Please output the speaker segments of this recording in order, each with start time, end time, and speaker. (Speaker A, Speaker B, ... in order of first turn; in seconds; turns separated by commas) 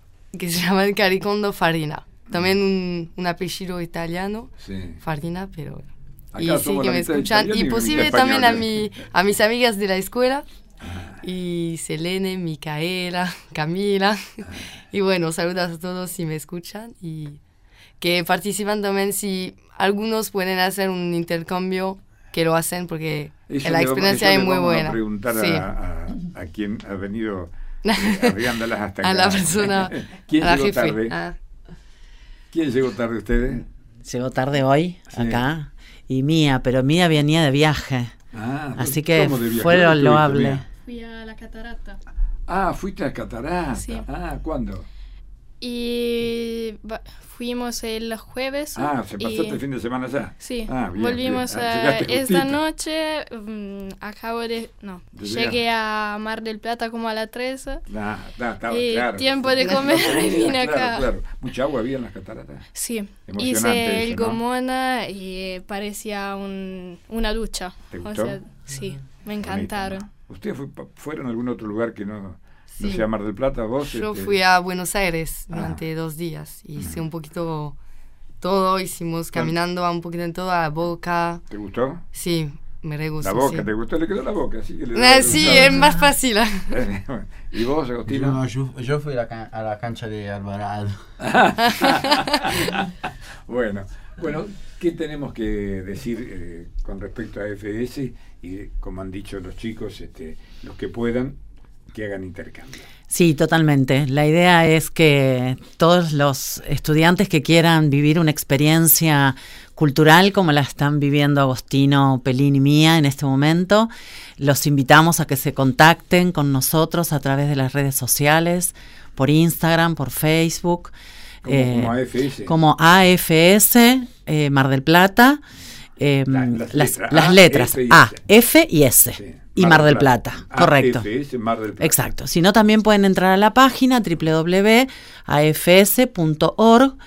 Speaker A: 0.3-5.8, Speaker B: 4.6-5.0, Speaker B: 6.3-8.9, Speaker A: 6.4-10.4, Speaker B: 10.8-11.2, Speaker A: 11.2-17.4, Speaker A: 18.0-25.7, Speaker B: 23.5-31.1, Speaker A: 27.8-31.4, Speaker B: 32.5-33.6, Speaker C: 34.0-38.1, Speaker B: 35.1-35.4, Speaker B: 38.3-40.6, Speaker C: 38.8-40.6, Speaker D: 40.8-42.0, Speaker B: 42.5-44.9, Speaker D: 43.7-44.0, Speaker D: 45.6-49.6, Speaker B: 48.7-52.6, Speaker D: 50.4-57.8, Speaker B: 55.1-55.6, Speaker B: 57.9-62.6, Speaker D: 58.7-61.1, Speaker D: 62.7-70.1, Speaker B: 63.2-64.4, Speaker B: 67.9-68.4, Speaker B: 69.4-74.3, Speaker A: 72.8-73.0, Speaker A: 73.8-77.8, Speaker B: 75.5-75.8, Speaker B: 76.8-77.0, Speaker A: 78.4-81.4, Speaker B: 81.5-82.0, Speaker A: 82.1-83.7, Speaker B: 83.2-86.0, Speaker A: 84.9-86.8, Speaker C: 85.4-85.9, Speaker B: 86.7-88.4, Speaker E: 88.1-91.0, Speaker B: 91.2-101.4, Speaker B: 101.9-102.8, Speaker C: 103.1-120.9, Speaker B: 121.4-122.6, Speaker C: 121.5-125.4, Speaker C: 126.0-131.1, Speaker B: 126.3-128.2, Speaker B: 129.1-132.0, Speaker C: 131.8-136.9